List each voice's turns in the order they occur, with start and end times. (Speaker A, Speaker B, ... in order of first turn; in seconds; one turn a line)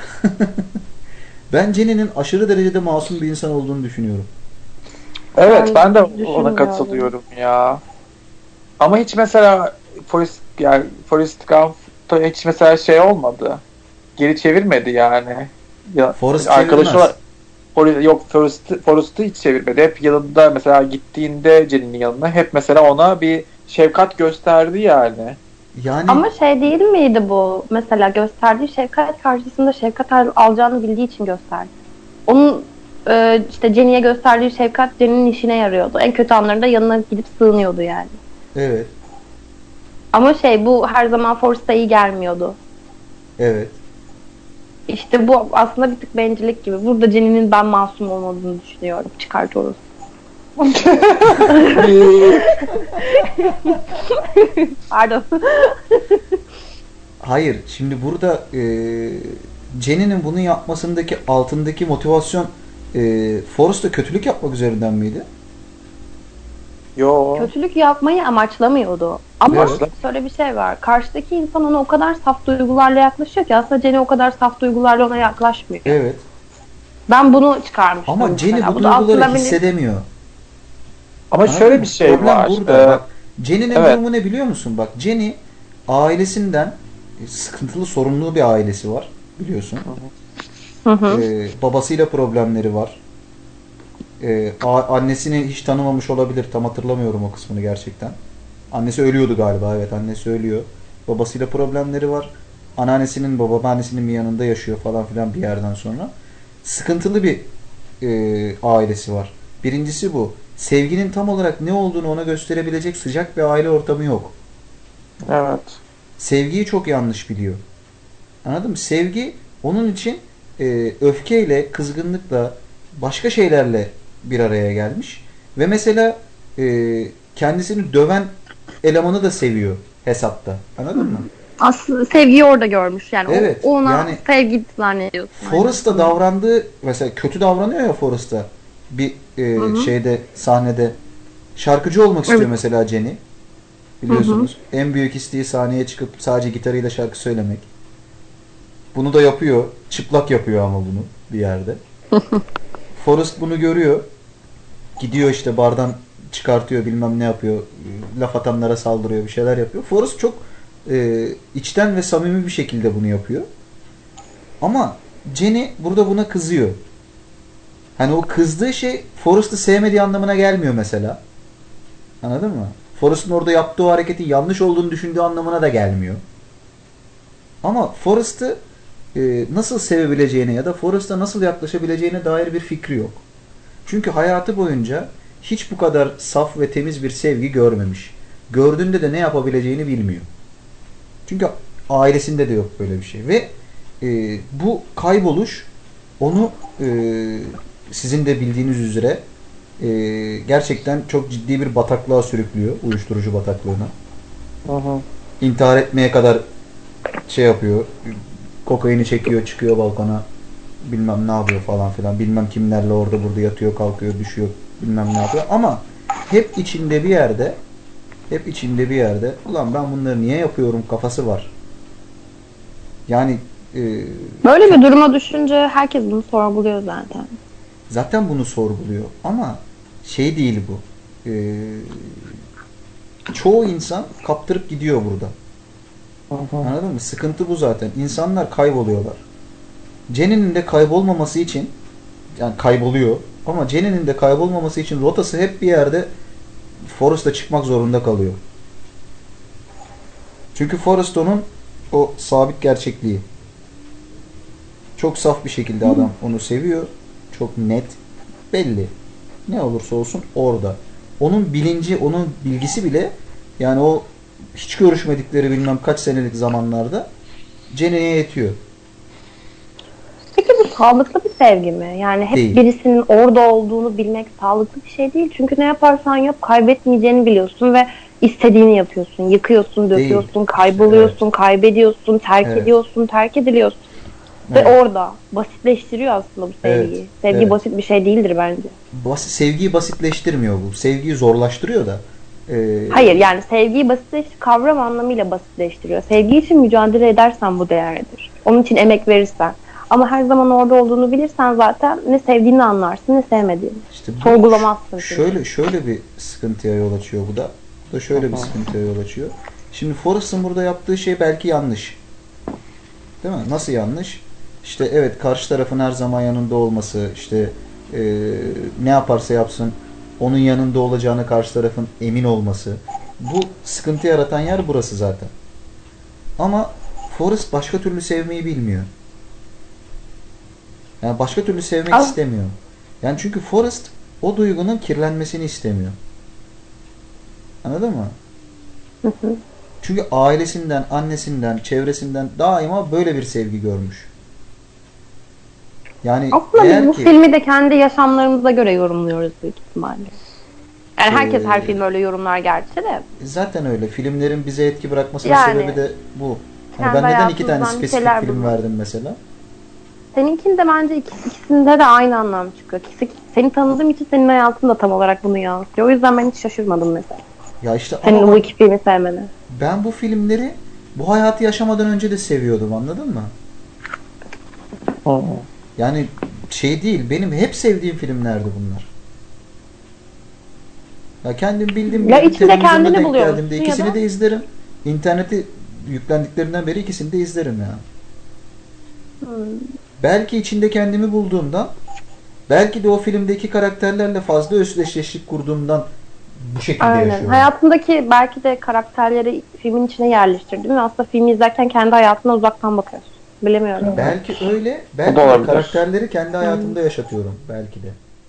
Speaker A: 0.2-0.6
Speaker A: 1.5-4.3
Speaker B: 5.4-7.8
Speaker C: 5.4-7.1
Speaker B: 8.8-13.6
Speaker B: 14.2-17.2
Speaker A: 16.1-17.1
Speaker B: 17.7-25.4
Speaker A: 25.7-26.3
Speaker C: 26.1-31.7
Speaker C: 32.3-38.1
Speaker A: 38.5-38.9
Speaker C: 40.1-42.6
Speaker A: 43.4-43.8
Speaker C: 44.9-49.8
Speaker B: 50.6-52.6
Speaker C: 51.4-56.2
Speaker A: 57.2-65.3
Speaker B: 67.0-67.5
Speaker C: 67.4-76.0
Speaker B: 69.5-69.9
Speaker A: 69.5-69.8
Speaker A: 75.8-76.2
Speaker C: 77.1-79.6
Speaker A: 78.1-80.0
Speaker B: 81.3-83.0
Speaker A: 81.4-89.9
Speaker B: 83.7-84.0
Speaker B: 89.8-90.1
Speaker C: 90.8-91.2
Speaker A: 91.1-93.0
Speaker A: 94.2-98.2
Speaker A: 98.7-106.1
Speaker A: 106.6-107.5
Speaker A: 108.0-114.3
Speaker B: 115.2-115.8
Speaker A: 116.2-117.6
Speaker A: 118.4-128.3
Speaker A: 128.8-131.3
Speaker C: 130.9-136.1
Speaker A: 133.3-134.2
Speaker A: 135.3-141.0
Speaker C: 139.6-139.9
Speaker A: 141.6-143.2
Speaker A: 144.0-147.7
Speaker C: 144.1-144.5
Speaker A: 148.9-151.8
Speaker C: 152.2-152.4
Speaker A: 152.9-154.1
Speaker A: 155.0-163.5
Speaker A: 164.6-166.8
Speaker A: 168.0-171.2
Speaker A: 172.2-176.2
Speaker A: 177.6-178.6
Speaker A: 179.1-183.2
Speaker A: 183.8-190.3
Speaker A: 191.3-199.2
Speaker A: 199.8-203.9
Speaker B: 204.7-205.0
Speaker A: 205.4-206.4
Speaker A: 207.3-210.2
Speaker A: 210.8-217.6
Speaker A: 218.3-221.5
Speaker A: 223.1-224.9
Speaker C: 224.4-227.3
Speaker A: 227.9-232.4
Speaker A: 233.3-235.3
Speaker B: 236.3-236.7
Speaker A: 236.6-239.2
Speaker A: 240.1-241.7
Speaker A: 242.4-246.1
Speaker A: 246.9-248.4
Speaker A: 250.5-253.2
Speaker A: 255.0-258.0
Speaker C: 255.8-256.1
Speaker A: 258.5-258.9
Speaker A: 259.5-267.1
Speaker A: 267.7-268.6
Speaker C: 270.4-283.8
Speaker A: 272.3-272.6
Speaker A: 279.9-281.2
Speaker A: 282.4-282.7
Speaker A: 284.5-284.8
Speaker C: 284.5-288.7
Speaker A: 286.6-287.6
Speaker A: 288.9-293.3
Speaker C: 292.9-305.3
Speaker A: 303.9-312.0
Speaker B: 308.1-308.5
Speaker A: 313.2-325.3
Speaker A: 326.4-328.9
Speaker A: 331.0-336.0
Speaker A: 337.6-338.1
Speaker C: 339.0-339.4
Speaker A: 339.8-344.1
Speaker A: 346.0-347.1
Speaker C: 346.3-350.1
Speaker C: 351.0-353.0
Speaker A: 351.1-351.8
Speaker A: 353.2-359.2
Speaker C: 355.2-355.8
Speaker C: 356.8-358.6
Speaker C: 360.1-367.2
Speaker A: 367.6-368.4
Speaker C: 368.0-369.3
Speaker A: 369.5-373.3
Speaker B: 375.1-375.4
Speaker A: 375.8-378.9
Speaker A: 381.2-387.8
Speaker C: 381.9-384.0
Speaker C: 389.2-389.6
Speaker A: 390.0-391.7
Speaker A: 392.5-395.9
Speaker A: 396.4-397.5
Speaker C: 396.8-404.1
Speaker B: 403.8-404.1
Speaker A: 403.9-408.0
Speaker B: 405.1-405.8
Speaker C: 406.4-406.8